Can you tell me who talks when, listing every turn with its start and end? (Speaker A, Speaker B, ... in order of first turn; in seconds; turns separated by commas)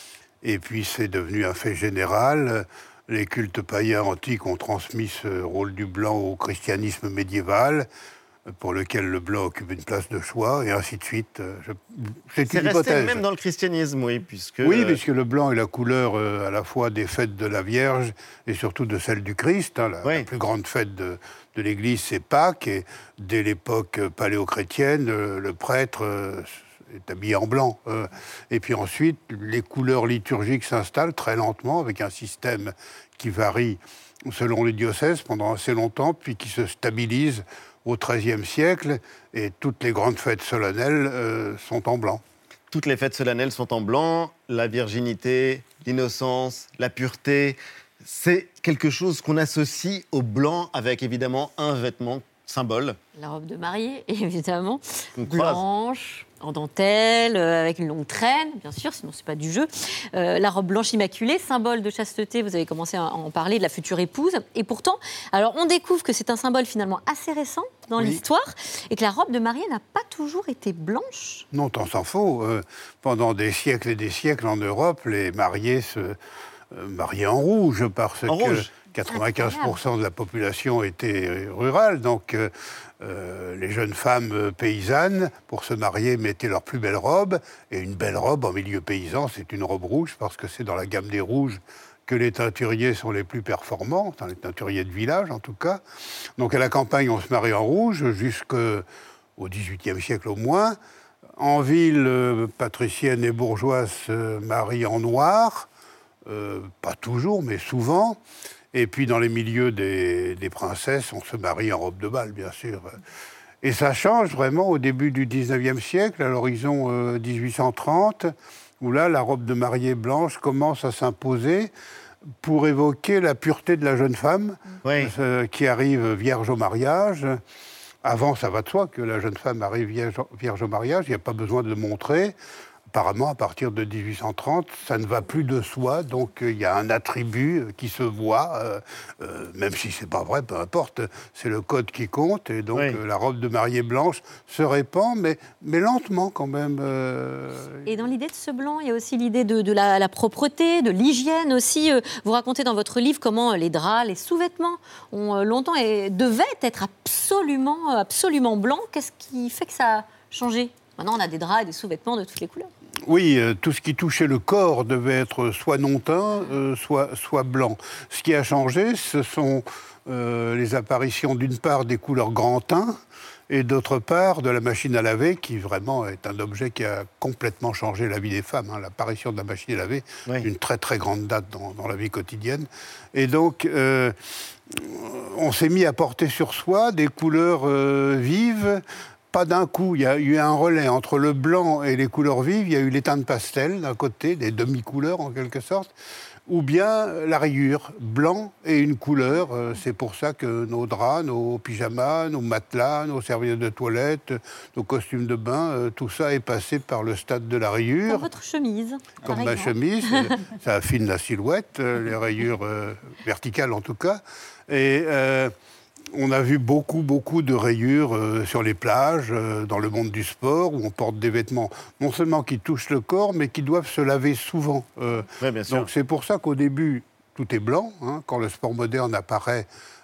Speaker A: 0.4-7.9, Speaker A: 8.5-13.2, Speaker B: 12.4-15.0, Speaker A: 14.6-42.2, Speaker B: 42.7-53.0, Speaker C: 53.1-71.5, Speaker B: 55.2-55.6, Speaker A: 71.5-76.2, Speaker A: 76.7-95.8, Speaker B: 78.3-78.7, Speaker C: 79.1-79.8, Speaker A: 96.4-98.8, Speaker A: 99.4-100.8, Speaker A: 101.4-105.7, Speaker A: 106.2-108.2, Speaker A: 108.7-113.0, Speaker A: 113.6-121.7, Speaker A: 122.4-127.4, Speaker B: 124.8-125.1, Speaker A: 128.0-132.3, Speaker A: 132.9-147.9, Speaker B: 142.7-143.0, Speaker C: 147.8-162.7, Speaker A: 163.1-172.9, Speaker A: 173.5-184.1, Speaker A: 184.7-195.9, Speaker A: 196.5-208.3, Speaker C: 208.1-210.3, Speaker A: 209.2-215.5, Speaker A: 216.1-229.7, Speaker B: 225.4-225.9